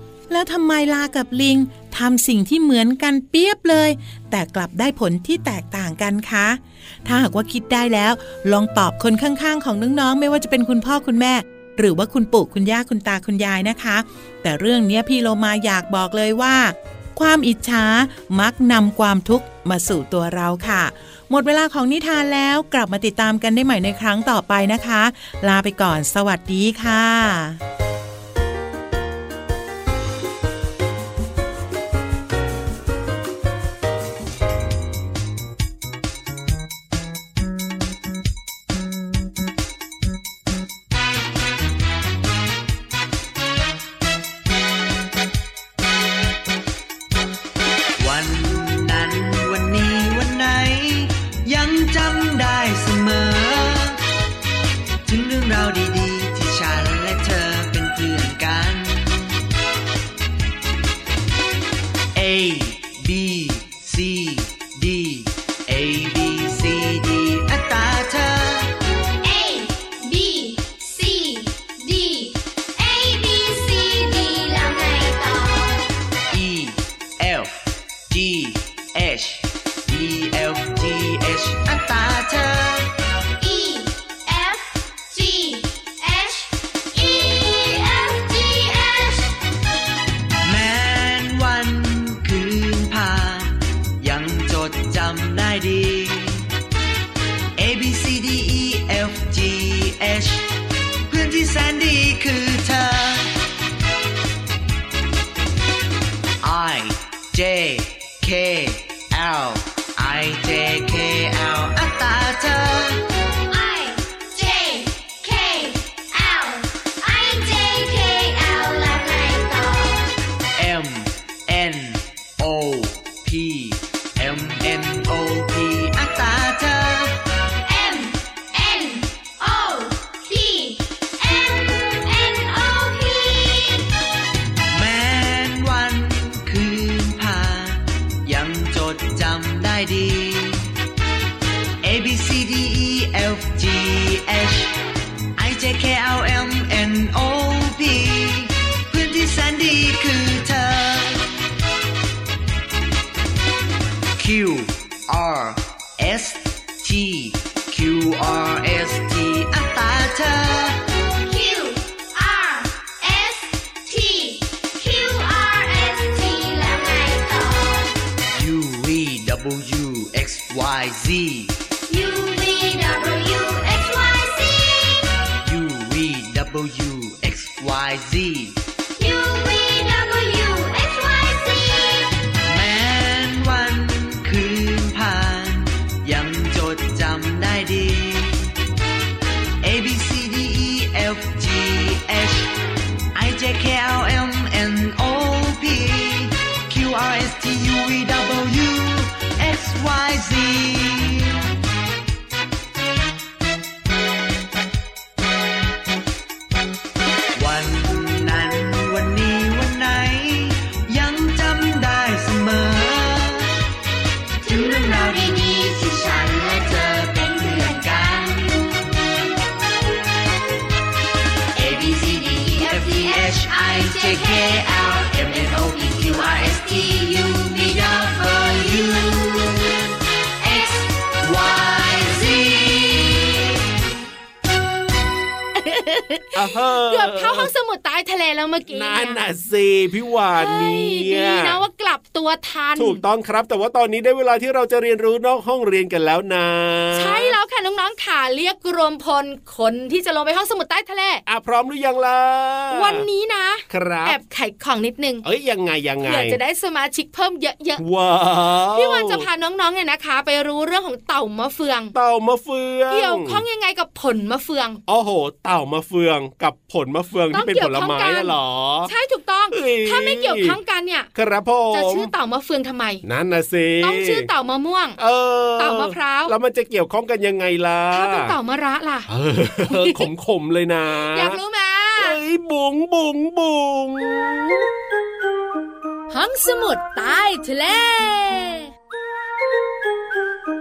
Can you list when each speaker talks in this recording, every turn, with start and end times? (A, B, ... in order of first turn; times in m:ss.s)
0:00.3-0:27.6 A
0:48.0-0:54.0 B
0:55.0-0:59.2 B
1:02.1-1:08.7 B
1:09.2-1:15.9 C
1:16.3-1:22.9 B
1:23.4-1:29.4 C
1:30.4-1:36.5 B
1:37.6-1:40.5 B
1:41.1-1:43.3 B
1:46.4-1:53.0 B
1:53.5-2:00.1 C
2:00.6-2:07.2 B
2:07.6-2:13.9 C
2:14.7-2:20.7 B
2:21.8-2:24.7 B
2:25.4-2:31.3 B
2:34.2-2:40.8 B
2:41.2-2:47.9 C
2:48.3-2:51.6 B
2:51.9-2:55.1 C
2:55.4-2:58.6 B
2:59.0-3:02.1 C
3:02.4-3:08.5 B
3:09.6-3:12.5 B
3:13.1-3:21.4 B
3:27.3-3:33.5 B
3:34.4-3:38.6 C
3:34.5-3:35.4 B
3:37.6-3:38.4 B
3:41.6-3:49.8 B
3:41.6-3:46.9 C
3:50.4-3:53.4 B
3:55.6-3:59.2 D
3:56.3-3:57.5 E
3:58.7-4:01.6 E
4:00.4-4:03.0 D
4:02.8-4:07.3 E
4:06.9-4:11.2 D
4:11.3-4:13.0 E
4:12.7-4:15.2 D
4:13.7-4:14.2 E
4:15.2-4:16.4 E
4:16.0-4:17.8 D
4:17.8-4:19.2 E
4:18.7-4:21.9 D
4:21.9-4:23.4 E
4:22.9-4:24.8 D
4:24.9-4:28.9 E
4:27.3-4:28.3 D
4:28.9-4:31.1 D
4:29.5-4:30.6 E
4:31.1-4:32.1 E
4:31.7-4:33.0 D
4:33.0-4:34.3 E
4:33.8-4:35.0 D
4:35.0-4:38.3 E
4:35.6-4:36.3 D
4:37.9-4:39.1 D
4:39.1-4:41.4 E
4:39.7-4:40.0 D
4:41.1-4:42.2 D
4:42.0-4:44.7 E
4:46.1-4:48.7 D